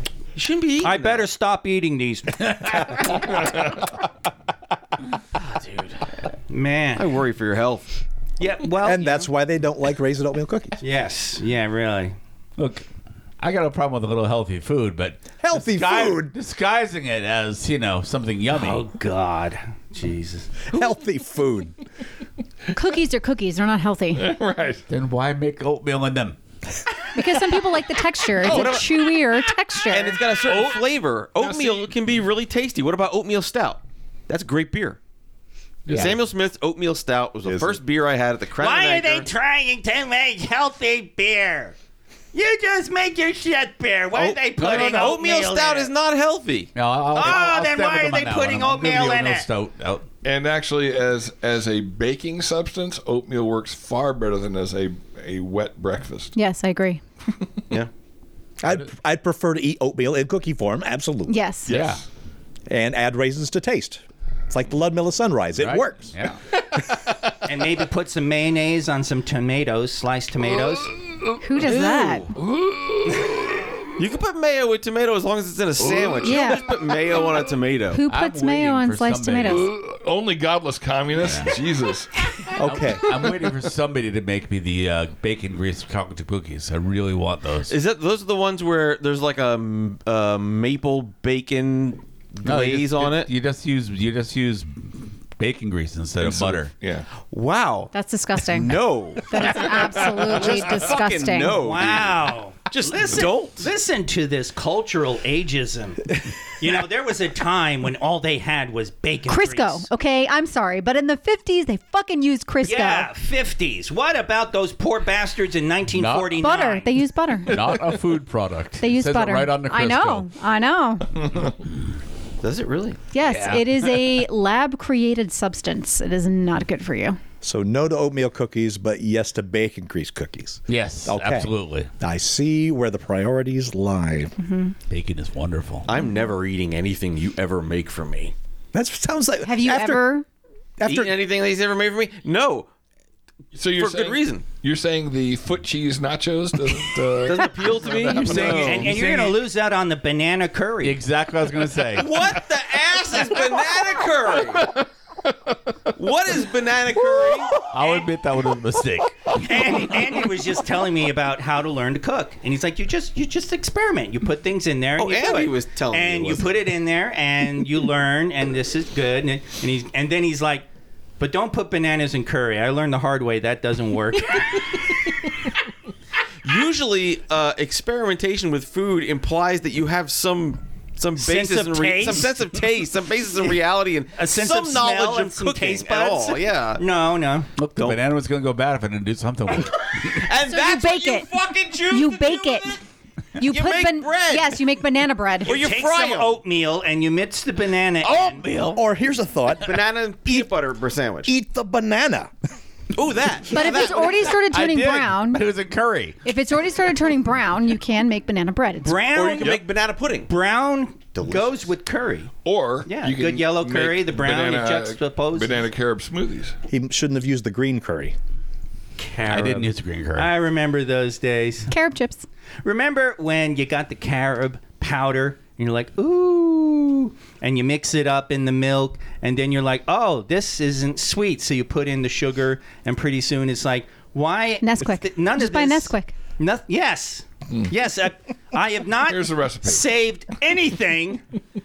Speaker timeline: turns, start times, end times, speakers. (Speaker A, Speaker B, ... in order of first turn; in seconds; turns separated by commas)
Speaker A: 0.3-1.3, Speaker B: 0.8-3.1, Speaker B: 6.5-7.0, Speaker A: 6.9-8.0, Speaker B: 8.4-9.3, Speaker C: 8.8-10.8, Speaker B: 10.8-12.2, Speaker D: 12.6-12.8, Speaker D: 13.4-18.9, Speaker C: 15.4-16.3, Speaker B: 18.5-20.6, Speaker C: 20.7-21.7, Speaker E: 22.7-24.3, Speaker F: 24.1-24.8, Speaker D: 24.9-26.4, Speaker E: 27.1-30.2, Speaker A: 28.4-29.1, Speaker F: 28.4-28.8, Speaker A: 29.9-35.0, Speaker F: 30.4-31.9, Speaker D: 35.9-36.1, Speaker A: 35.9-39.3, Speaker B: 38.6-41.8, Speaker B: 42.3-45.9, Speaker A: 44.1-46.7, Speaker D: 44.6-45.2, Speaker D: 46.7-50.0, Speaker B: 47.1-49.5, Speaker F: 50.2-56.3, Speaker E: 56.3-57.0, Speaker C: 58.6-61.4, Speaker E: 61.3-61.7, Speaker F: 61.6-62.0, Speaker D: 61.7-62.0, Speaker C: 62.7-66.1, Speaker D: 65.6-66.4, Speaker B: 67.5-70.9, Speaker E: 71.4-72.3, Speaker A: 71.6-72.2, Speaker F: 72.3-73.9, Speaker A: 74.0-78.0, Speaker F: 75.8-77.2, Speaker E: 76.2-76.6, Speaker E: 77.9-79.7, Speaker D: 78.1-79.7, Speaker F: 79.4-82.1, Speaker D: 81.2-81.5, Speaker C: 82.5-83.3, Speaker D: 82.6-87.7, Speaker A: 87.7-93.3, Speaker D: 92.4-96.7, Speaker F: 96.2-97.1, Speaker A: 97.2-103.7, Speaker E: 97.9-101.6, Speaker F: 99.4-100.6, Speaker B: 101.5-109.8, Speaker E: 109.3-113.1, Speaker B: 112.6-116.9, Speaker D: 115.9-116.5, Speaker E: 116.4-117.7, Speaker D: 117.4-120.2, Speaker E: 118.8-121.1, Speaker A: 122.4-123.0, Speaker E: 123.1-127.2, Speaker D: 123.2-124.2, Speaker C: 127.4-134.3, Speaker D: 130.7-131.9, Speaker E: 134.4-134.7, Speaker D: 134.9-135.9, Speaker A: 135.8-138.3, Speaker C: 138.7-140.1, Speaker E: 139.4-140.2, Speaker C: 140.8-141.2, Speaker A: 140.8-142.7, Speaker F: 143.5-148.5, Speaker A: 143.7-144.4, Speaker A: 147.2-148.9, Speaker D: 148.0-149.4, Speaker B: 148.4-151.0, Speaker D: 150.8-152.2, Speaker A: 151.9-154.7, Speaker F: 154.5-155.9, Speaker A: 155.9-157.6, Speaker D: 157.6-159.5, Speaker B: 159.3-170.7, Speaker A: 165.0-166.7, Speaker B: 171.2-174.9, Speaker A: 176.4-186.8, Speaker B: 181.2-182.3, Speaker B: 184.2-187.5, Speaker D: 187.6-190.2, Speaker A: 190.0-192.8, Speaker E: 190.4-191.3, Speaker E: 191.9-192.7, Speaker E: 193.3-195.6, Speaker A: 193.4-194.6, Speaker A: 195.4-196.4, Speaker B: 195.5-198.4, Speaker D: 198.0-198.8, Speaker C: 198.7-200.5, Speaker A: 199.6-201.3, Speaker C: 201.2-202.3, Speaker A: 202.9-204.3, Speaker E: 203.5-205.4, Speaker D: 204.3-206.2, Speaker E: 206.2-209.0, Speaker B: 208.8-209.6, Speaker A: 209.1-210.3, Speaker B: 210.2-212.3, Speaker A: 211.1-211.7, Speaker F: 212.4-216.5, Speaker B: 212.8-215.7, Speaker C: 216.7-218.1, Speaker B: 219.0-221.7, Speaker D: 219.3-220.3, Speaker E: 221.7-222.2, Speaker B: 222.6-241.2, Speaker E: 234.6-236.1, Speaker F: 239.0-239.9